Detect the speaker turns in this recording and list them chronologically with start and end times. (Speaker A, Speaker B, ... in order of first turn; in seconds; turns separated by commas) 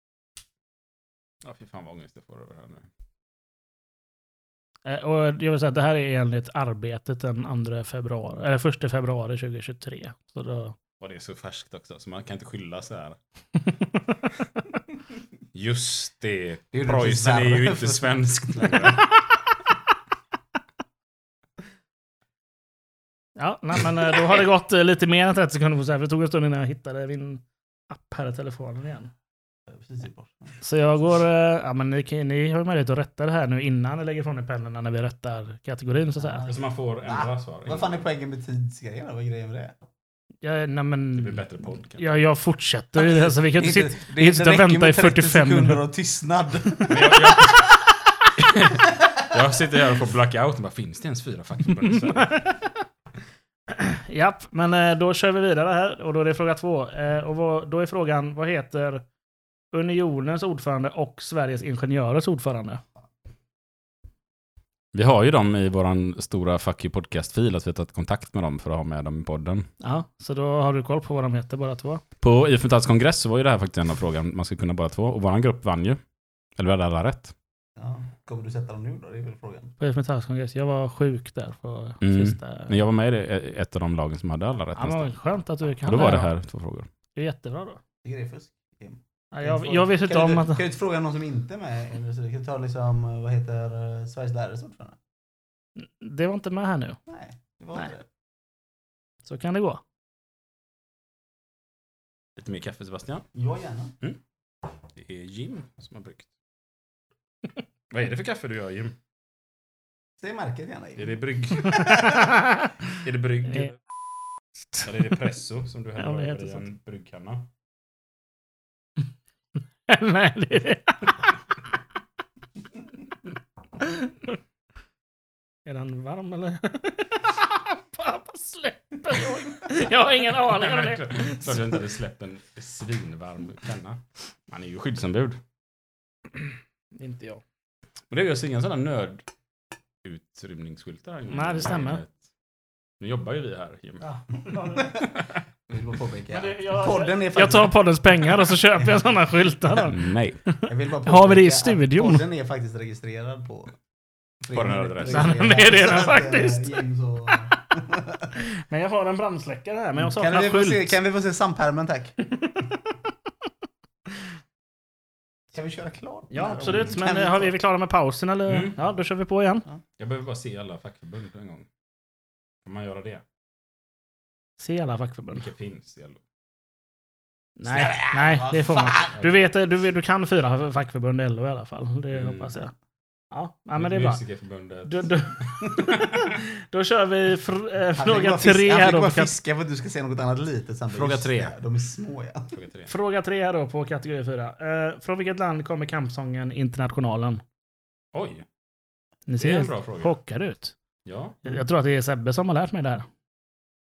Speaker A: 1.4-2.9, Speaker B: 4.8-10.8, Speaker A: 11.0-13.2, Speaker A: 15.5-19.1, Speaker C: 16.7-18.9, Speaker B: 23.4-29.1, Speaker C: 29.7-30.5, Speaker B: 30.6-36.6, Speaker C: 36.2-39.7, Speaker A: 36.5-38.0, Speaker B: 40.4-45.8, Speaker A: 41.1-42.2, Speaker C: 43.0-47.1, Speaker A: 46.9-47.6, Speaker A: 48.4-52.4, Speaker B: 52.0-52.8, Speaker B: 53.7-59.0, Speaker B: 59.7-62.8, Speaker A: 64.9-69.7, Speaker B: 69.8-72.0, Speaker A: 72.2-76.0, Speaker A: 76.6-77.3, Speaker C: 77.8-79.7, Speaker B: 79.8-82.8, Speaker A: 82.0-85.2, Speaker B: 84.8-86.3, Speaker A: 85.8-86.9, Speaker B: 87.2-87.8, Speaker C: 88.0-95.0, Speaker B: 89.3-90.6, Speaker B: 95.8-97.0, Speaker C: 97.1-98.0, Speaker B: 99.2-99.8, Speaker A: 102.4-103.2, Speaker C: 103.3-103.9, Speaker A: 104.9-106.3, Speaker A: 107.9-109.0, Speaker C: 110.2-112.3, Speaker A: 111.0-111.9, Speaker A: 113.0-113.7, Speaker A: 114.8-117.5, Speaker B: 116.0-116.6, Speaker B: 119.9-121.3, Speaker B: 125.7-131.8, Speaker A: 130.4-135.4, Speaker B: 136.9-137.4, Speaker A: 138.1-139.2, Speaker A: 140.0-142.2, Speaker B: 141.3-142.0, Speaker A: 143.0-144.0, Speaker B: 144.0-145.0, Speaker C: 144.7-145.1, Speaker C: 145.7-147.8, Speaker B: 146.3-152.2, Speaker A: 149.8-150.4, Speaker C: 150.7-153.7, Speaker C: 154.4-158.3, Speaker A: 154.5-155.4, Speaker B: 155.1-157.4, Speaker B: 158.7-160.9, Speaker C: 160.0-162.2, Speaker C: 165.5-167.6, Speaker B: 166.3-169.6, Speaker A: 168.5-168.8, Speaker A: 170.0-171.7, Speaker A: 172.6-173.2, Speaker B: 174.6-175.5, Speaker A: 175.3-176.2, Speaker B: 177.6-182.7, Speaker C: 177.7-179.2, Speaker A: 182.1-182.5, Speaker B: 183.3-184.2, Speaker A: 183.8-186.2, Speaker B: 184.9-189.3, Speaker C: 187.9-192.5, Speaker A: 190.9-191.6, Speaker A: 192.5-192.9, Speaker B: 192.9-197.4, Speaker A: 198.1-198.4, Speaker B: 199.3-200.7, Speaker A: 199.4-200.1, Speaker A: 201.0-201.4, Speaker B: 201.4-203.1